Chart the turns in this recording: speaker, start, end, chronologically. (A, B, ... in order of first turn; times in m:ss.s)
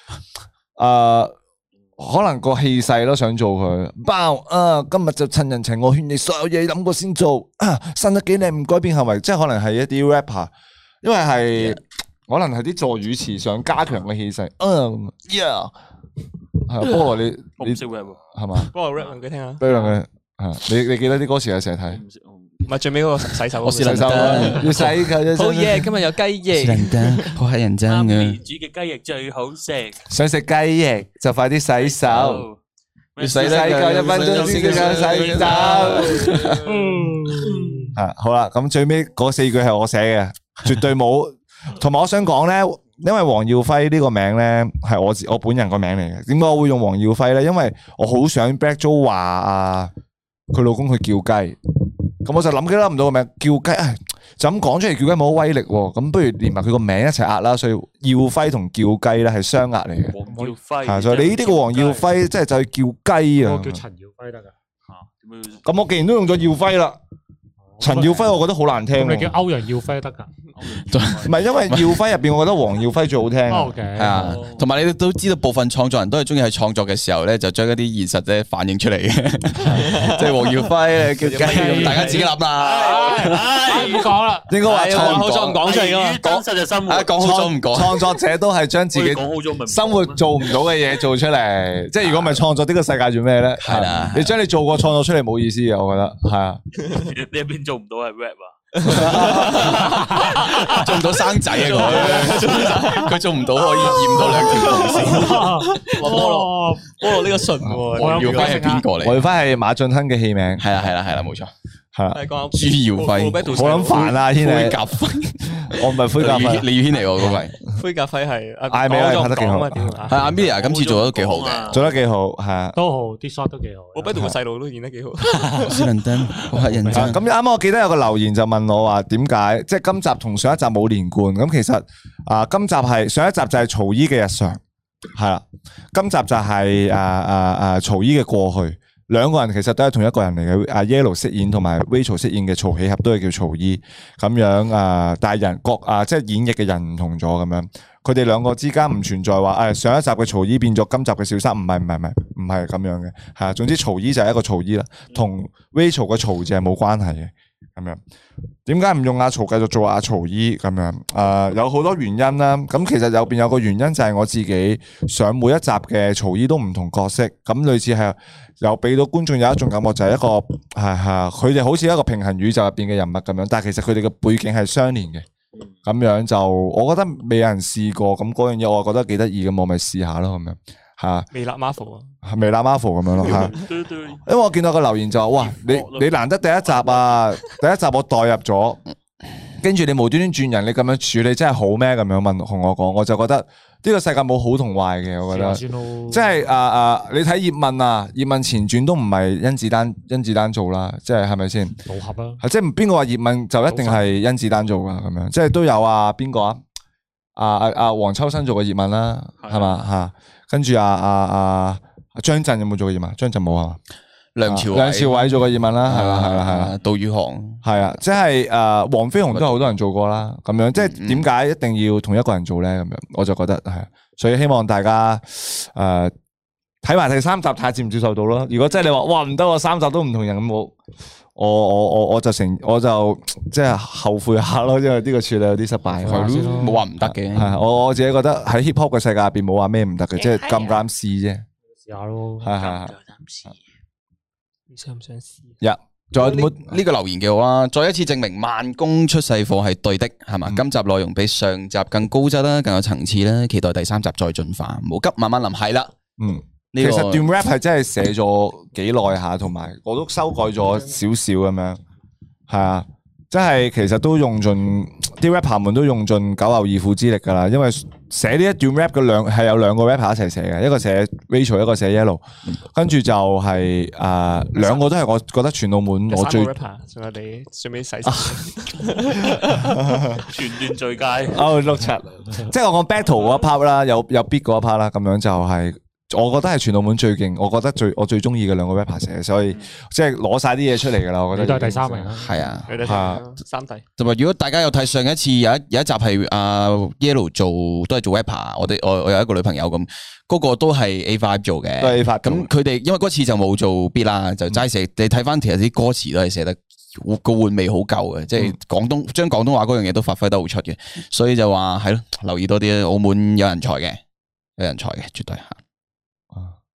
0:00.8-0:01.3 A
0:02.0-0:15.7 A
0:16.6-0:18.7 A
0:17.6-0:18.2 B
0:18.7-0:19.6 C
0:18.9-0:19.8 B
0:19.6-0:22.0 A
0:21.9-0:22.7 B
0:22.6-0:24.6 C
0:23.6-0:25.0 D
0:23.8-0:25.9 A
0:25.3-0:27.3 C
0:26.5-0:28.4 D
0:27.8-0:30.0 B
0:30.1-0:32.4 A
0:31.8-0:32.6 B
0:33.2-0:36.5 B
0:33.2-0:36.6 D
0:33.3-0:36.2 A
0:36.6-0:37.9 E
0:36.7-0:37.1 C
0:37.9-0:49.9 A
0:50.5-0:51.6 A
0:52.2-1:00.2 A
1:00.1-1:02.1 B
1:00.2-1:00.6 E
1:00.8-1:03.8 A
1:03.4-1:04.5 E
1:04.9-1:05.6 B
1:05.6-1:07.0 A
1:07.8-1:08.4 E
1:07.8-1:09.3 A
1:08.9-1:10.3 E
1:10.5-1:11.6 B
1:10.7-1:11.9 D
1:11.2-1:13.8 A
1:13.5-1:14.4 E
1:13.9-1:23.6 D
1:14.1-1:14.7 B
1:19.8-1:20.1 C
1:21.2-1:22.3 C
1:21.4-1:24.5 E
1:22.5-1:24.1 B
1:24.5-1:25.6 A
1:24.6-1:26.2 C
1:24.8-1:26.0 D
1:25.6-1:27.3 B
1:26.8-1:28.0 D
1:27.1-1:36.6 A
1:28.9-1:30.2 B
1:33.6-1:34.3 D
1:36.9-1:38.6 B
1:38.8-1:46.2 D
1:38.8-1:40.5 C
1:39.5-1:40.5 B
1:41.5-1:42.5 B
1:41.6-1:48.8 C
1:45.1-1:47.0 E
1:47.9-1:48.9 E
1:48.0-1:49.3 D
1:49.0-1:50.7 A
1:50.6-1:51.5 D
1:51.9-1:52.2 A
1:52.1-1:54.6 C
1:52.5-1:57.5 D
1:53.5-1:54.8 A
1:55.5-1:56.7 A
1:57.6-2:00.2 C
1:58.7-2:00.3 A
2:00.1-2:01.8 D
2:00.4-2:01.9 B
2:01.7-2:02.8 A
2:02.7-2:04.2 E
2:03.9-2:05.8 C
2:05.2-2:05.8 E
2:05.6-2:07.2 D
2:06.5-2:07.2 E
2:06.9-2:14.6 A
2:15.1-2:38.0 A
2:38.6-2:55.2 A
2:55.8-3:01.3 A
3:01.3-3:02.1 C
3:02.2-3:03.6 A
3:03.2-3:04.2 B
3:04.2-3:08.8 A
3:05.3-3:07.2 B
3:09.6-3:21.8 A
3:15.2-3:16.3 E
3:21.8-3:22.4 E
3:22.4-3:26.6 A
3:23.7-3:24.0 B
3:27.4-3:33.8 A
3:29.4-3:29.9 B
3:34.3-3:37.6 D
3:34.4-3:36.8 A
3:37.6-3:46.1 A
3:39.3-3:39.6 D
3:40.8-3:41.2 D
3:46.8-3:50.8 A
3:51.3-4:01.4 A
3:55.9-3:56.8 E
3:56.0-3:57.5 D
4:01.7-4:02.6 E
4:02.4-4:02.9 A
4:02.6-4:03.6 B
4:04.7-4:05.6 C
4:05.6-4:06.8 A
4:06.1-4:15.9 D
4:16.2-4:21.8 A
4:16.7-4:17.3 D
4:22.5-4:36.5 A
4:34.6-4:34.8 C
4:36.1-4:39.7 C
4:38.0-4:38.4 A
4:39.3-4:40.2 A
4:40.3-4:41.4 B
4:41.3-4:52.2 A
4:51.3-4:52.3 E
4:52.1-4:52.9 D
4:52.7-4:53.8 C
4:52.8-4:53.2 A
4:54.0-5:14.0 D
5:01.8-5:02.5 A
5:14.6-5:15.6 D